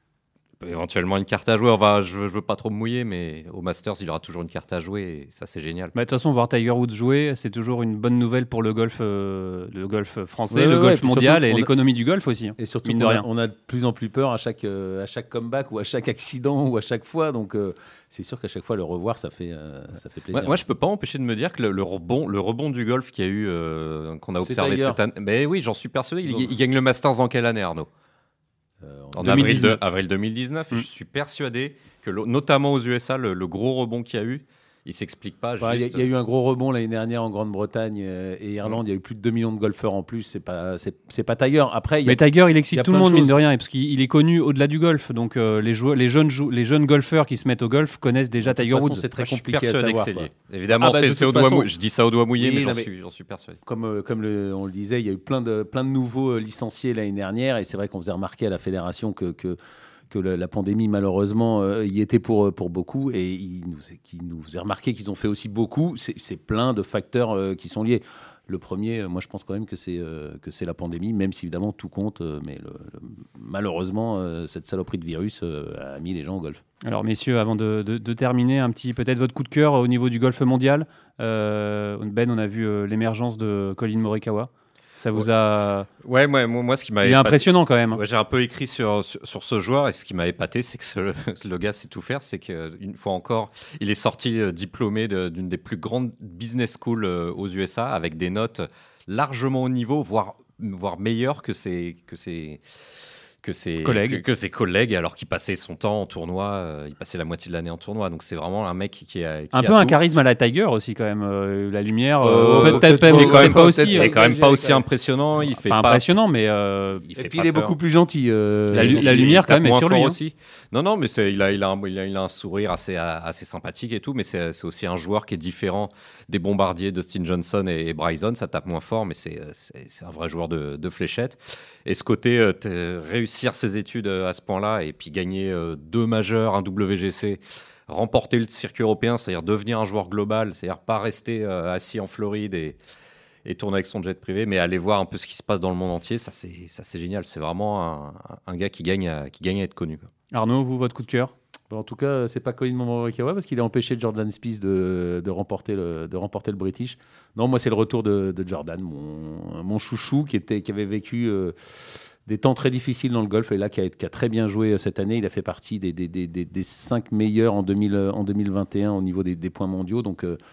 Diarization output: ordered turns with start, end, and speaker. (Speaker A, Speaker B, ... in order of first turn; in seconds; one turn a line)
Speaker A: 0.6-5.9
Speaker B: 6.0-13.2
Speaker C: 10.5-11.7
Speaker C: 12.6-20.6
Speaker A: 20.3-27.9
Speaker C: 24.4-25.0
Speaker C: 26.3-26.5
Speaker C: 28.8-29.7
Speaker A: 29.1-36.0
Speaker B: 29.2-29.8
Speaker C: 35.6-43.3
Speaker B: 42.1-49.0
Speaker C: 48.4-51.7
Speaker A: 49.2-53.6
Speaker C: 52.4-52.9
Speaker C: 53.6-59.6
Speaker C: 60.1-76.6
Speaker B: 76.8-85.9
Speaker A: 86.0-102.8
Speaker B: 87.0-88.0
Speaker A: 103.4-110.0
Speaker B: 103.8-104.2
Speaker B: 109.5-114.1
Speaker C: 112.2-114.9
Speaker A: 112.3-116.1
Speaker B: 115.7-117.7
Speaker C: 117.1-119.4
Speaker A: 117.2-117.7
Speaker B: 118.7-120.2
Speaker A: 118.8-142.8
Speaker A: 143.4-150.1
Speaker B: 150.3-151.3
Speaker C: 151.7-170.4